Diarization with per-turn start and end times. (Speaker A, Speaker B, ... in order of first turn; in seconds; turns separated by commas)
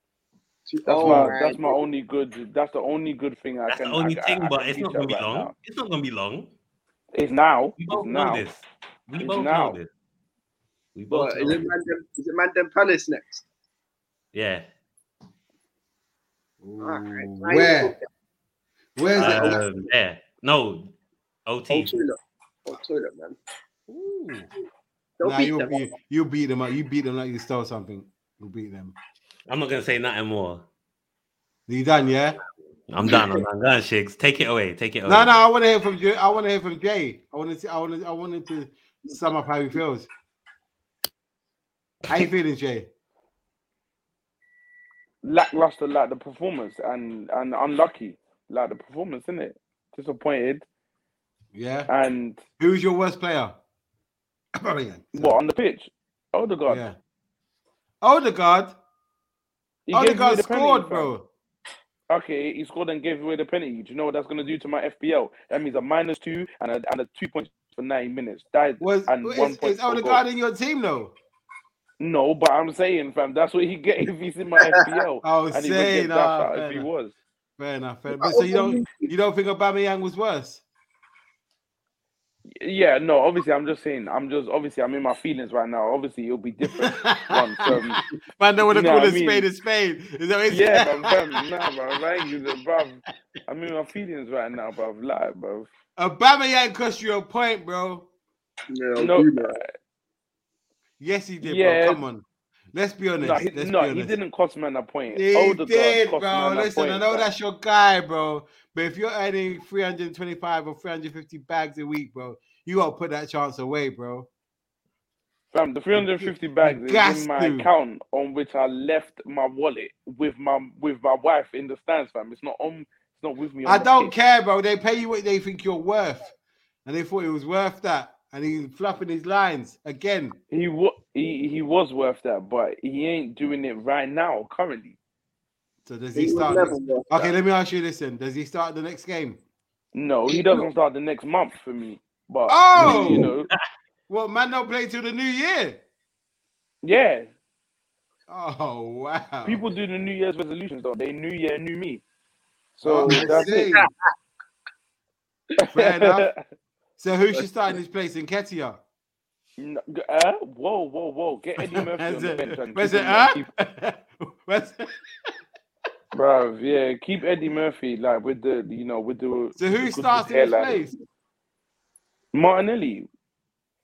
Speaker A: 0.7-1.9, Speaker B: 0.8-1.4, Speaker C: 0.9-5.5, Speaker D: 3.7-6.5, Speaker C: 7.1-8.4, Speaker D: 7.8-9.9, Speaker C: 9.2-9.8, Speaker D: 10.9-11.7, Speaker A: 11.1-13.4, Speaker D: 14.3-14.7, Speaker B: 16.6-17.9, Speaker A: 16.8-18.0, Speaker B: 18.9-19.6, Speaker A: 19.1-19.7, Speaker D: 19.2-20.9, Speaker D: 21.4-21.9, Speaker A: 21.7-23.4, Speaker B: 23.9-24.5, Speaker A: 25.2-25.8, Speaker B: 25.2-28.9, Speaker D: 29.5-30.6, Speaker B: 31.7-32.4, Speaker D: 32.9-35.4, Speaker A: 33.0-33.4, Speaker B: 35.0-40.1, Speaker B: 42.1-42.9, Speaker C: 45.2-50.6, Speaker B: 51.5-51.9, Speaker C: 51.9-52.4, Speaker B: 52.6-53.5, Speaker B: 54.6-55.4, Speaker C: 55.1-56.8, Speaker B: 56.7-57.0, Speaker B: 58.0-58.7, Speaker C: 59.9-61.1, Speaker B: 59.9-61.3, Speaker C: 62.1-70.2, Speaker B: 68.8-71.1, Speaker C: 72.0-77.2, Speaker B: 75.2-76.9, Speaker B: 77.6-80.6, Speaker A: 78.1-79.1, Speaker C: 82.6-88.0, Speaker B: 86.7-91.4, Speaker C: 88.7-89.5, Speaker C: 90.5-95.7, Speaker B: 96.0-98.1, Speaker A: 98.7-99.6, Speaker C: 99.0-99.7, Speaker B: 101.0-104.2, Speaker C: 101.4-102.0, Speaker C: 103.2-107.3, Speaker B: 105.1-114.3, Speaker C: 115.5-124.1, Speaker B: 115.9-117.7, Speaker B: 123.6-126.2, Speaker B: 126.8-130.4, Speaker C: 130.5-135.0, Speaker B: 135.8-139.4, Speaker A: 136.1-137.3, Speaker C: 139.9-143.5, Speaker A: 140.3-140.7, Speaker B: 142.5-143.3, Speaker D: 142.8-143.6, Speaker B: 144.1-145.8, Speaker C: 146.8-147.3, Speaker B: 148.3-149.6, Speaker C: 149.4-152.0, Speaker C: 152.8-153.6, Speaker B: 152.8-153.9, Speaker A: 153.1-154.1, Speaker C: 155.6-156.3, Speaker B: 155.7-156.3, Speaker B: 157.0-158.8, Speaker C: 159.6-163.4, Speaker B: 161.6-164.9, Speaker C: 166.1-170.8, Speaker B: 169.6-170.9, Speaker C: 172.3-173.1